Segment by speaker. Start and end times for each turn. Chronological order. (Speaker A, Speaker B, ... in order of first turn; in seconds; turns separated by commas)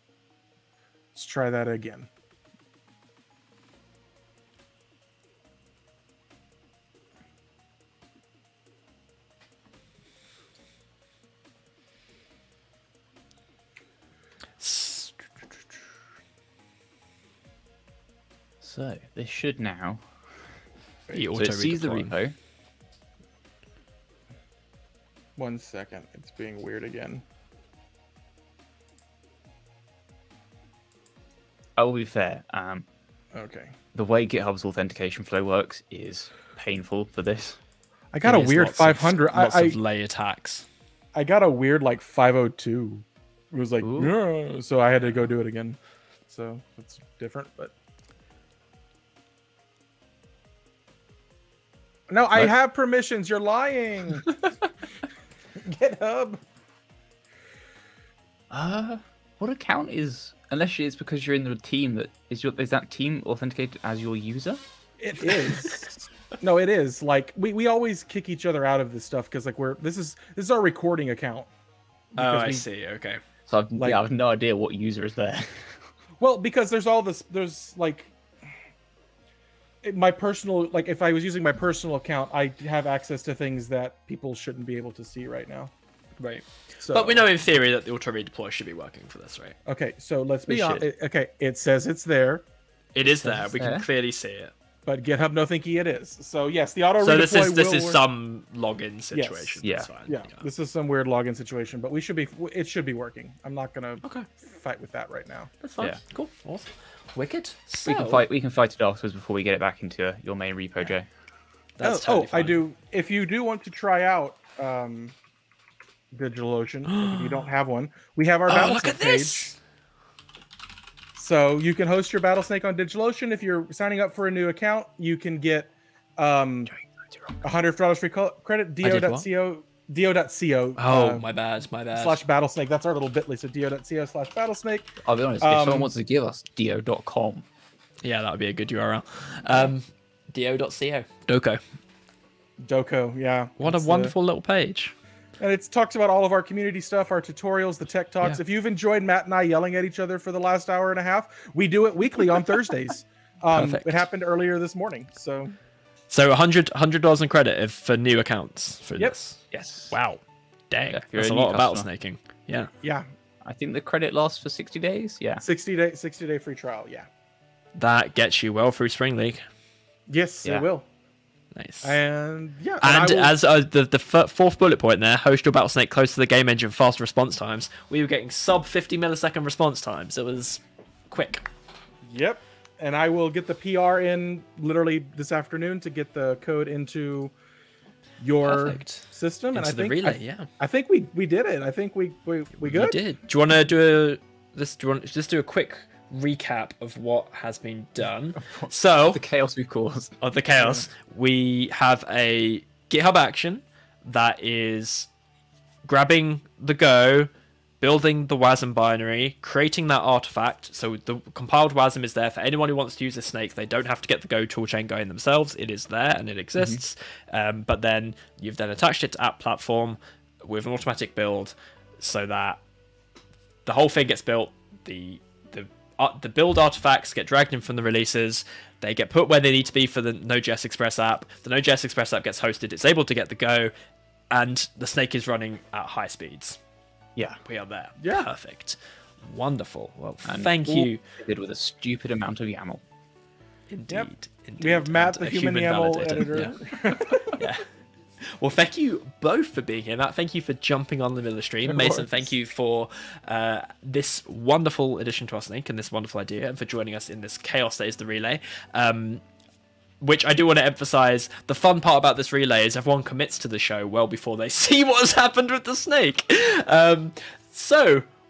Speaker A: 1.1-2.1, Speaker B: 14.6-15.3, Speaker C: 18.6-20.1, Speaker B: 21.1-22.1, Speaker C: 21.3-22.4, Speaker A: 25.4-27.2, Speaker C: 31.8-32.8, Speaker A: 33.3-33.7, Speaker C: 33.9-37.6, Speaker A: 38.1-39.8, Speaker B: 38.2-40.6, Speaker A: 41.1-45.8, Speaker C: 43.8-44.1, Speaker A: 46.3-47.7, Speaker A: 52.1-54.4, Speaker A: 55.6-56.4, Speaker C: 58.5-64.6, Speaker A: 65.0-71.5, Speaker B: 65.2-65.8, Speaker A: 72.2-72.6, Speaker B: 72.2-73.2, Speaker C: 73.5-75.7, Speaker A: 73.8-74.0, Speaker A: 76.2-78.1, Speaker A: 79.8-85.7, Speaker B: 86.2-89.5, Speaker A: 86.8-87.2, Speaker A: 89.7-92.4, Speaker C: 90.5-90.8, Speaker B: 92.9-94.5, Speaker C: 93.2-93.8, Speaker A: 94.8-98.0, Speaker B: 97.0-100.4, Speaker A: 99.1-105.5, Speaker C: 99.6-99.9, Speaker B: 105.6-108.2, Speaker C: 107.8-111.0, Speaker B: 111.8-112.6, Speaker A: 111.8-115.1, Speaker A: 116.1-119.5, Speaker B: 116.9-117.4, Speaker B: 118.5-119.6, Speaker A: 121.2-126.7, Speaker A: 127.4-131.2, Speaker B: 128.8-129.2, Speaker B: 130.8-132.2, Speaker A: 131.9-135.9, Speaker C: 135.0-137.4, Speaker B: 138.0-141.6, Speaker A: 142.6-144.1, Speaker B: 143.6-144.9, Speaker A: 145.4-155.5, Speaker B: 153.5-154.0, Speaker B: 156.1-162.7, Speaker C: 159.5-159.9, Speaker C: 160.9-161.9, Speaker A: 162.8-163.1, Speaker C: 163.4-165.4, Speaker A: 165.4-167.1, Speaker B: 167.8-169.4, Speaker A: 170.1-170.8, Speaker B: 171.5-172.0, Speaker A: 171.8-173.3, Speaker B: 172.8-181.4, Speaker A: 182.1-187.3, Speaker A: 188.2-193.0, Speaker B: 188.4-190.5, Speaker B: 192.6-199.2, Speaker C: 198.3-200.2, Speaker B: 200.2-205.1, Speaker B: 205.8-207.3, Speaker B: 207.8-222.6, Speaker B: 223.7-233.7, Speaker B: 234.3-236.6, Speaker B: 237.4-241.0, Speaker A: 238.0-238.3, Speaker C: 240.2-242.8, Speaker B: 243.7-246.6, Speaker A: 243.9-247.3, Speaker B: 247.3-247.7, Speaker B: 248.3-259.2, Speaker A: 251.6-252.3, Speaker B: 260.0-268.1